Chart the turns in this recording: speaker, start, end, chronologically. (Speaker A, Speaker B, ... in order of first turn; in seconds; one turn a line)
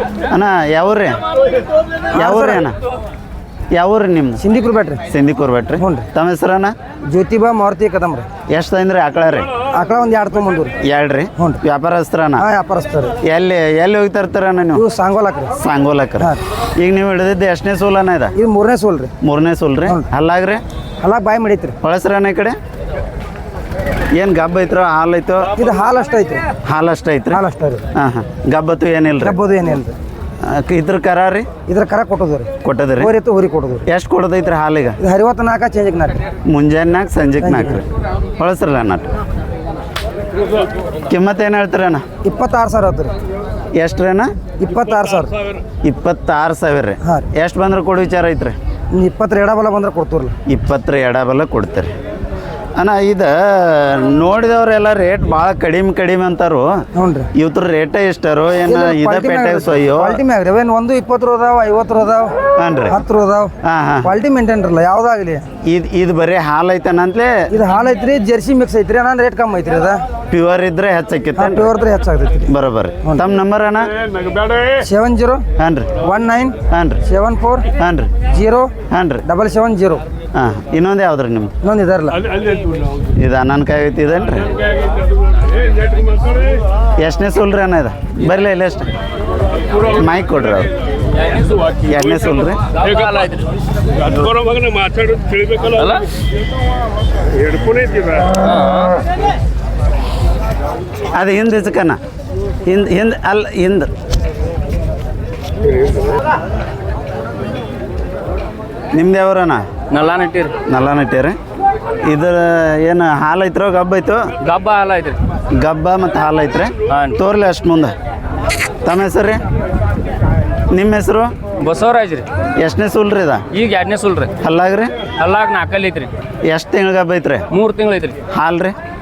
Speaker A: 0.3-1.2
Speaker B: 2.1-2.6
Speaker A: 2.1-2.8
Speaker A: 3.7-4.3
Speaker B: 4.4-5.0
Speaker A: 5.1-6.7
Speaker B: 5.8-6.1
Speaker B: 7.1-8.3
Speaker A: 8.5-9.5
Speaker B: 9.7-10.8
Speaker A: 10.8-12.4
Speaker B: 11.3-11.6
Speaker B: 12.4-13.2
Speaker A: 13.2-14.8
Speaker B: 14.7-15.5
Speaker A: 15.6-18.3
Speaker B: 18.3-19.1
Speaker A: 19.2-20.6
Speaker B: 21.0-21.8
Speaker A: 21.8-22.6
Speaker A: 24.1-25.5
Speaker B: 25.6-26.4
Speaker A: 26.6-27.4
Speaker B: 27.3-27.8
Speaker A: 27.9-29.4
Speaker B: 29.2-29.9
Speaker A: 30.4-31.5
Speaker B: 31.6-33.8
Speaker A: 32.6-33.1
Speaker A: 33.9-34.9
Speaker B: 35.0-36.2
Speaker A: 36.5-37.9
Speaker B: 37.4-37.8
Speaker A: 38.4-39.1
Speaker A: 41.1-42.0
Speaker B: 42.2-43.1
Speaker A: 43.7-44.3
Speaker B: 44.6-45.3
Speaker A: 45.8-48.5
Speaker B: 47.0-47.3
Speaker B: 48.9-50.3
Speaker A: 50.5-51.9
Speaker A: 52.8-56.8
Speaker B: 56.9-57.3
Speaker A: 57.3-60.1
Speaker B: 58.7-62.3
Speaker A: 62.6-63.0
Speaker B: 62.9-65.5
Speaker A: 63.6-64.1
Speaker A: 65.6-67.4
Speaker B: 67.5-70.0
Speaker A: 70.3-71.7
Speaker B: 71.3-73.3
Speaker A: 72.5-73.9
Speaker B: 74.7-75.4
Speaker A: 75.6-75.9
Speaker B: 76.0-77.7
Speaker A: 76.7-77.0
Speaker A: 77.8-78.1
Speaker B: 78.2-78.7
Speaker A: 78.9-79.2
Speaker B: 79.2-80.0
Speaker A: 80.3-81.5
Speaker B: 81.6-82.2
Speaker A: 83.1-84.5
Speaker A: 87.0-88.9
Speaker A: 89.9-90.7
Speaker A: 91.8-92.6
Speaker C: 92.7-93.5
Speaker C: 95.6-96.1
Speaker C: 98.3-99.0
Speaker A: 101.1-102.0
Speaker A: 102.6-103.9
Speaker A: 108.9-109.6
Speaker C: 109.9-110.5
Speaker A: 110.7-111.4
Speaker A: 112.0-114.2
Speaker C: 114.4-115.2
Speaker A: 115.5-117.9
Speaker C: 116.9-117.2
Speaker A: 118.8-119.4
Speaker A: 120.7-121.3
Speaker C: 121.6-122.3
Speaker A: 122.6-123.4
Speaker C: 123.5-124.3
Speaker A: 124.4-125.0
Speaker C: 125.2-126.1
Speaker A: 126.4-127.4
Speaker C: 127.5-128.2
Speaker A: 128.3-128.8